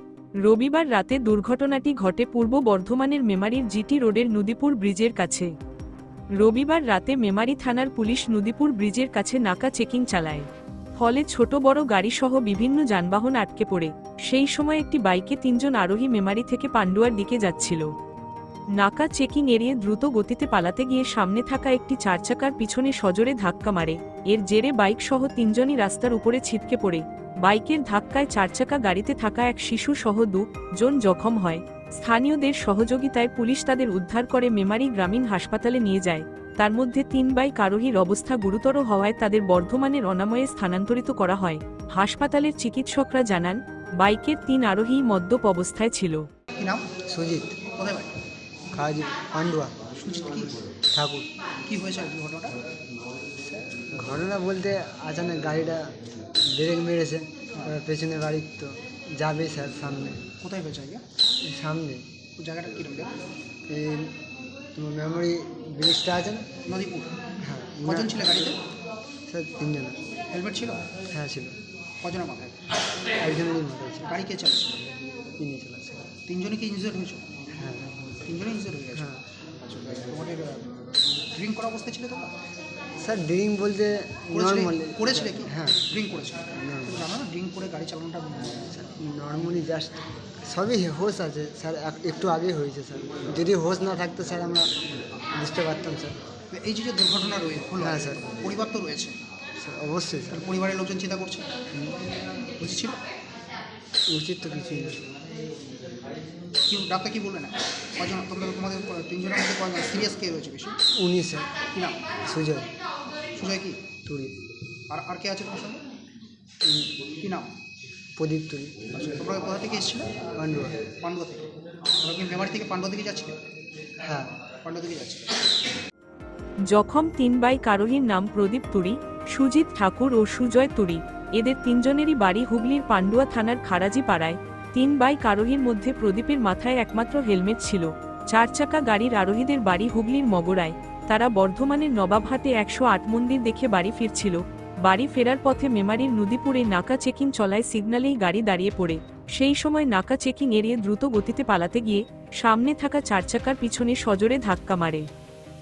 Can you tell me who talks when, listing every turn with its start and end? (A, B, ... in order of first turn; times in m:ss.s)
0:00.4-0:05.5 A
0:06.4-0:10.5 A
0:11.0-0:17.9 A
0:18.8-0:46.3 A
0:46.6-0:46.9 B
0:47.1-0:47.6 C
0:47.8-0:48.1 B
0:48.7-0:49.8 C
0:50.0-0:50.6 B
0:50.9-0:51.3 C
0:51.7-0:52.6 B
0:53.4-0:55.9 C
0:56.5-1:00.2 C
1:00.4-1:01.0 B
1:01.4-1:02.1 C
1:02.4-1:03.2 B
1:03.7-1:04.2 C
1:04.7-1:06.6 C
1:06.7-1:07.1 B
1:07.4-1:08.2 C
1:07.8-1:08.6 B
1:09.3-1:10.0 C
1:10.3-1:10.8 B
1:11.1-1:11.6 C
1:12.0-1:12.6 B
1:13.2-1:14.1 C
1:14.0-1:14.8 B
1:15.4-1:16.1 C
1:16.3-1:17.2 B
1:17.6-1:17.9 C
1:18.2-1:22.3 B
1:19.0-1:19.2 C
1:23.0-1:25.9 C
1:24.3-1:28.6 B
1:26.5-1:27.1 C
1:28.7-1:34.7 C
1:35.4-1:36.2 C
1:36.5-1:39.2 B
1:37.8-1:38.2 C
1:39.6-1:40.5 C
1:40.3-1:41.5 B
1:41.7-1:42.0 C
1:42.6-1:43.0 B
1:44.1-1:45.0 C
1:46.7-1:50.8 B
1:50.9-1:51.5 C
1:51.7-1:52.0 B
1:52.3-1:52.7 C
1:53.4-1:53.8 B
1:54.0-1:54.4 C
1:54.9-1:55.8 B
1:56.6-1:56.9 C
1:57.2-1:57.5 B
1:58.2-1:58.8 C
1:58.9-2:00.1 B
2:00.4-2:00.8 C
2:01.0-2:01.5 B
2:02.0-2:03.4 B
2:04.0-2:04.3 C
2:04.6-2:05.3 B
2:06.7-2:35.1 A